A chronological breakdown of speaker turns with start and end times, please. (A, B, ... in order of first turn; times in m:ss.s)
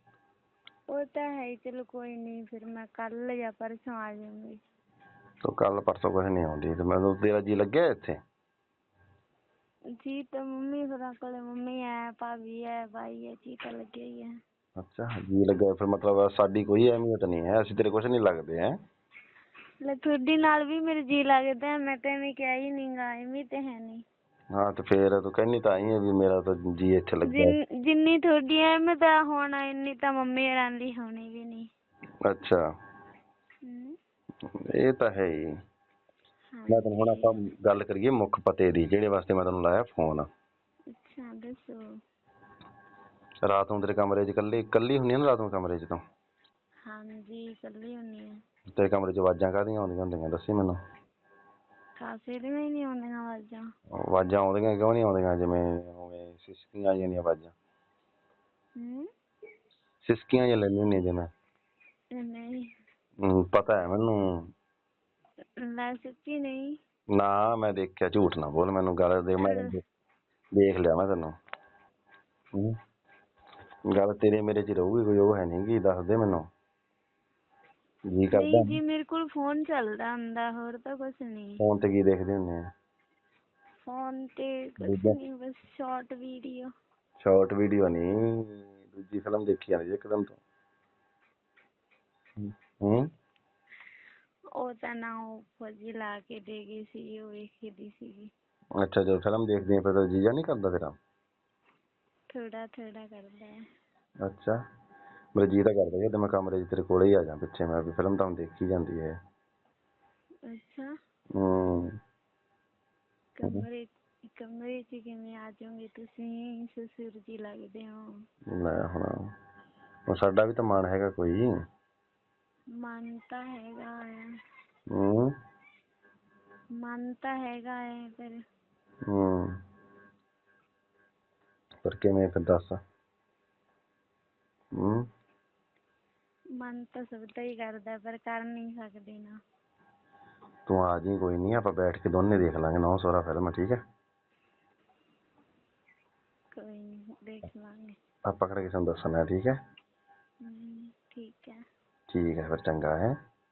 0:00.9-0:04.6 A
0:05.4-0:08.2 B
0:10.0-0:14.3 A
0:14.8-0:18.7 B
0:19.8-0:24.0 A
0:24.6-0:27.6 B
0:27.3-0:31.7 A
0:32.2-0:32.6 B
0:33.6-0:34.0 A
0:34.7-0:35.5 B
0:36.5-0:37.4 A
0:36.7-0:40.3 B
0:40.9-0:41.8 A
0:43.4-0:46.0 B
0:46.8-0:48.4 A
0:48.8-0:50.8 B
0:52.0-0:53.6 A
0:54.1-0:57.5 B
0:58.8-0:59.1 A
1:00.0-1:01.3 B
1:02.2-1:02.7 A
1:03.2-1:04.5 B
1:05.6-1:06.8 A
1:07.2-1:09.8 B
1:09.4-1:09.7 A
1:10.6-1:11.3 B
1:13.9-1:16.5 B
1:18.1-1:18.8 B
1:18.3-1:21.6 A
1:21.6-1:22.6 B
1:23.8-1:26.7 A
1:24.8-1:25.2 B
1:27.2-1:30.4 B
1:32.4-1:33.1 B
1:34.6-1:38.3 A
1:38.8-1:41.0 B
1:42.3-1:43.6 A
1:44.2-1:44.6 B
1:45.4-1:49.2 B
1:50.5-1:50.9 A
1:51.4-1:52.0 B
1:53.4-1:58.1 A
1:58.5-1:59.2 B
2:00.1-2:01.5 B
2:02.8-2:04.3 A
2:04.9-2:05.3 B
2:06.8-2:08.4 A
2:09.1-2:09.5 B
2:11.8-2:12.8 B
2:14.8-2:15.1 B
2:16.6-2:19.4 A
2:20.7-2:23.8 B
2:26.6-2:28.0 A
2:28.3-2:29.6 B
2:30.4-2:31.6 A
2:32.1-2:33.1 B